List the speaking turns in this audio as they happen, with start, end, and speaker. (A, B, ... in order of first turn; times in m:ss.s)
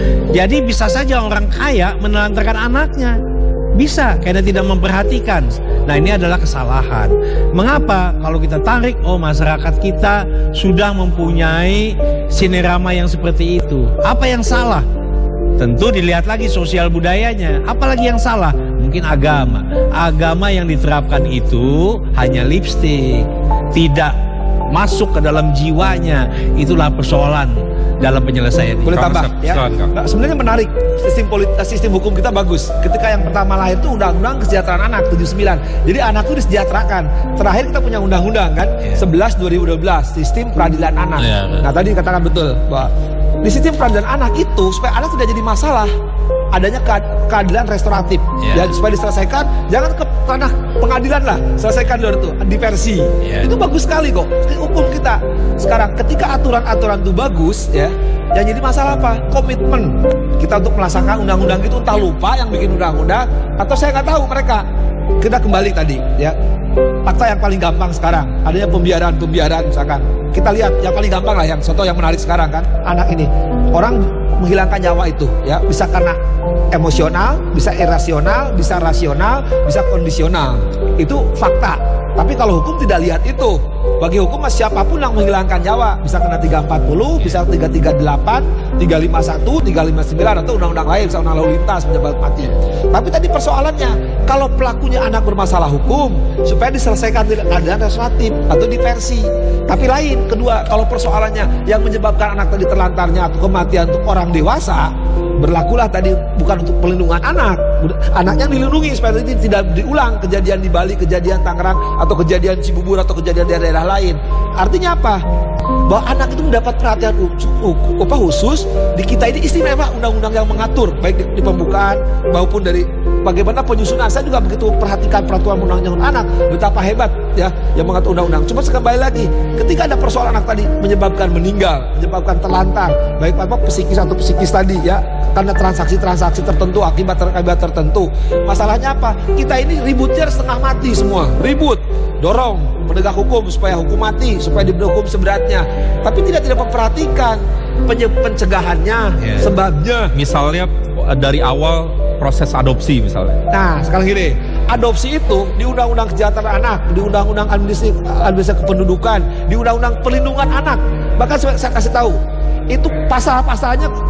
0:00.3-0:03.2 A
0:03.8-0:14.9 A
0:15.6-0:24.2 A
0:24.7-0:29.1 A
0:28.9-0:29.9 B
0:28.9-0:42.9 C
0:41.2-0:41.7 A
0:43.4-0:45.9 C
0:46.5-1:04.6 C
0:48.4-0:48.7 A
0:53.2-0:53.5 A
1:05.2-1:06.4 C
1:07.0-1:16.2 C
1:16.7-1:55.2 C
1:55.9-2:30.1 C
2:29.2-2:29.5 A
2:30.2-2:33.4 B
2:33.5-2:42.2 C
2:42.7-2:43.9 C